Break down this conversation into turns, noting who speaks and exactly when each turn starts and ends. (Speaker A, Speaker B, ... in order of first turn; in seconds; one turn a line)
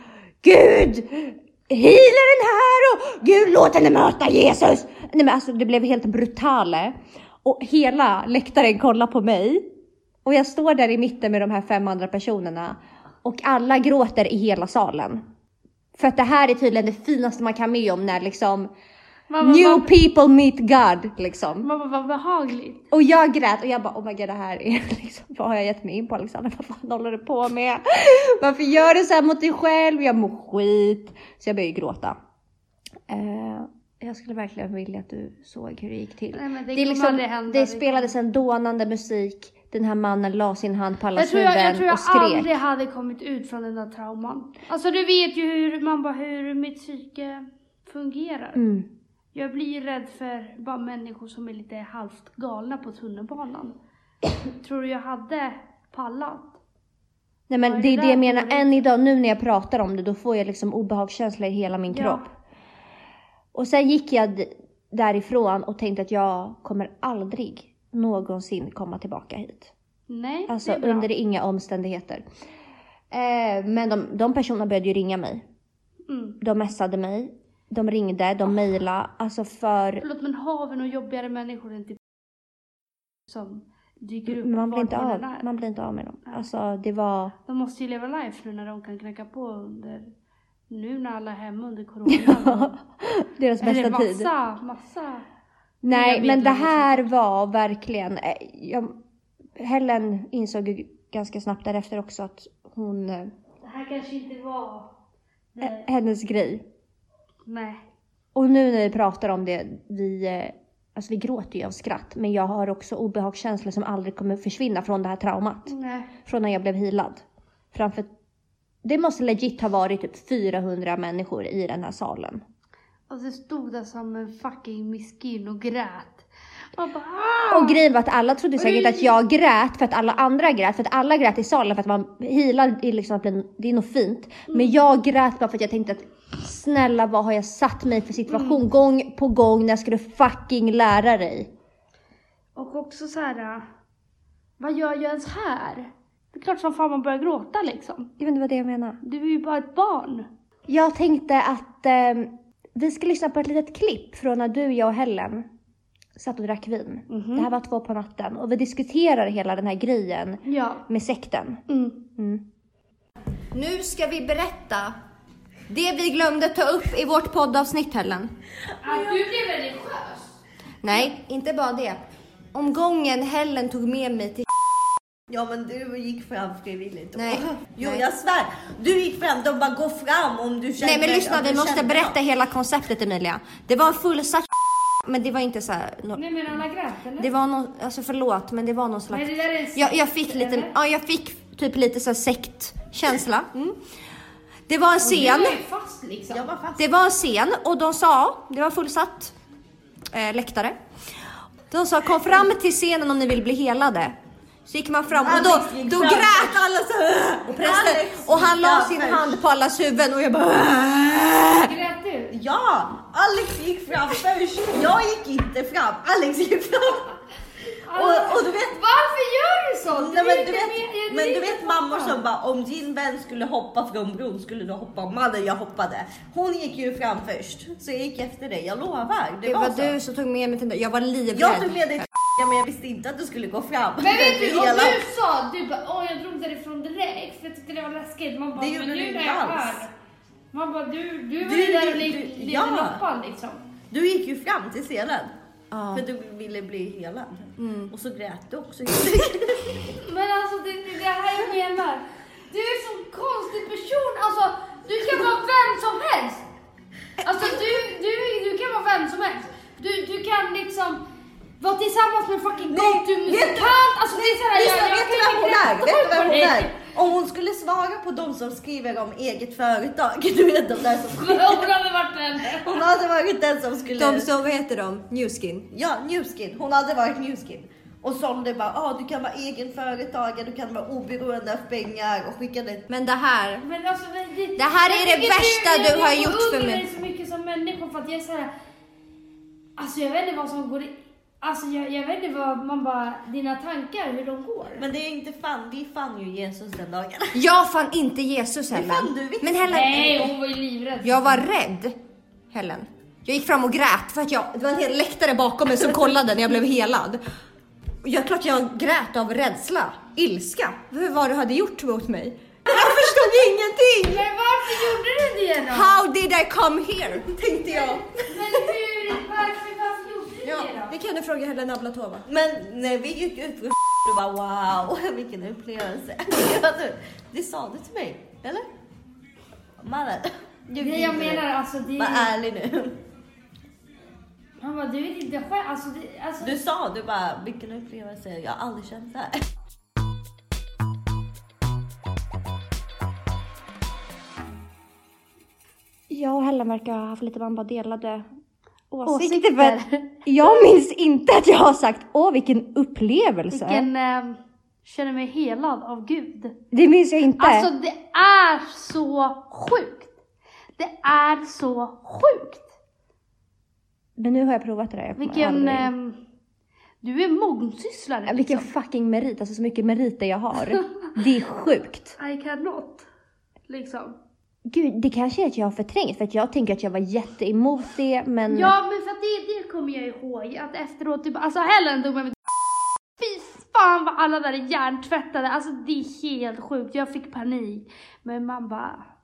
Speaker A: 0.4-9.7
Speaker A: 10.2-15.2
Speaker A: 15.9-18.7
Speaker B: 19.3-19.9
Speaker A: 19.4-21.7
Speaker B: 21.6-22.8
Speaker A: 22.9-32.2
Speaker A: 33.1-42.6
Speaker B: 36.3-38.1
Speaker B: 41.1-48.6
Speaker A: 48.5-48.9
Speaker B: 49.3-53.7
Speaker B: 54.2-56.6
Speaker A: 57.5-62.3
Speaker B: 57.6-58.9
Speaker B: 61.9-62.2
Speaker A: 63.5-69.7
Speaker B: 70.1-71.1
Speaker A: 70.5-72.2
Speaker A: 73.1-75.4
Speaker B: 76.1-76.4
Speaker A: 76.4-80.0
Speaker B: 80.0-82.0
Speaker B: 83.3-85.4
Speaker A: 84.3-87.3
Speaker B: 87.5-90.1
Speaker B: 90.7-92.7
Speaker A: 92.1-94.3
Speaker B: 93.6-95.2
Speaker A: 95.8-98.9
Speaker B: 95.9-97.0
Speaker A: 99.6-103.3
Speaker B: 103.6-104.9
Speaker B: 105.5-105.9
Speaker A: 105.6-106.6
Speaker B: 107.5-107.8
Speaker A: 108.3-115.7
Speaker B: 115.7-116.1
Speaker A: 116.2-117.2
Speaker A: 117.7-118.1
Speaker A: 118.8-122.4
Speaker B: 123.1-127.8
Speaker A: 127.5-141.5
Speaker B: 128.6-129.1
Speaker B: 138.3-138.6
Speaker B: 142.6-143.6
Speaker B: 144.6-148.1
Speaker A: 148.2-149.0
Speaker B: 149.0-150.3
Speaker A: 150.7-155.4
Speaker A: 156.2-161.6
Speaker B: 157.1-157.5
Speaker B: 160.4-160.8
Speaker B: 161.7-162.0
Speaker A: 162.2-162.4
Speaker A: 163.5-164.9
Speaker A: 165.7-168.3
Speaker B: 168.8-170.3
Speaker C: 168.9-169.2
Speaker A: 170.8-174.5
Speaker C: 175.3-182.2
Speaker A: 177.1-178.0
Speaker A: 180.8-186.2
Speaker B: 186.1-187.3
Speaker A: 187.2-193.8
Speaker B: 189.1-190.7
Speaker A: 194.7-195.6
Speaker B: 195.0-196.4
Speaker C: 196.3-196.8
Speaker A: 196.8-199.3
Speaker A: 200.1-200.8
Speaker A: 201.7-206.6
Speaker C: 205.2-209.4
Speaker A: 207.5-211.7
Speaker B: 211.7-212.3
Speaker C: 212.3-217.1
Speaker B: 217.8-222.2
Speaker C: 217.9-218.8
Speaker C: 219.9-229.9
Speaker A: 229.4-232.1
Speaker C: 231.3-235.1
Speaker B: 234.0-239.9
Speaker C: 238.6-239.8
Speaker B: 240.5-243.6
Speaker C: 241.4-243.0
Speaker C: 243.9-245.3
Speaker A: 245.7-246.0
Speaker C: 245.9-249.8
Speaker A: 247.6-247.9
Speaker B: 250.0-256.4
Speaker B: 257.2-261.0
Speaker B: 261.6-266.7
Speaker C: 262.7-271.7
Speaker B: 271.2-272.8
Speaker C: 272.5-274.3
Speaker A: 273.9-275.7
Speaker C: 275.7-282.9
Speaker A: 282.9-283.6
Speaker B: 283.6-288.5
Speaker A: 284.6-286.8
Speaker B: 289.8-294.8
Speaker C: 294.8-297.4
Speaker A: 297.3-300.3
Speaker C: 298.7-300.2
Speaker B: 299.7-301.4
Speaker A: 301.0-301.9
Speaker A: 302.5-307.2
Speaker A: 308.0-314.2
Speaker B: 314.0-315.9
Speaker A: 315.7-318.0
Speaker C: 317.3-318.4
Speaker B: 318.2-320.9
Speaker A: 320.4-322.3
Speaker C: 322.3-328.6
Speaker C: 329.8-333.0
Speaker B: 330.8-332.3
Speaker B: 334.6-336.6
Speaker C: 336.4-339.4
Speaker A: 346.1-348.2
Speaker A: 348.9-353.9
Speaker B: 349.1-350.1
Speaker B: 353.5-356.5
Speaker A: 356.7-357.7
Speaker B: 357.4-360.1
Speaker B: 360.8-362.7
Speaker A: 364.2-365.9
Speaker B: 365.2-366.2
Speaker B: 367.0-368.7
Speaker A: 368.2-372.2
Speaker B: 372.2-373.1
Speaker B: 373.7-374.2
Speaker A: 374.7-378.7
Speaker B: 378.5-382.4
Speaker B: 383.1-389.0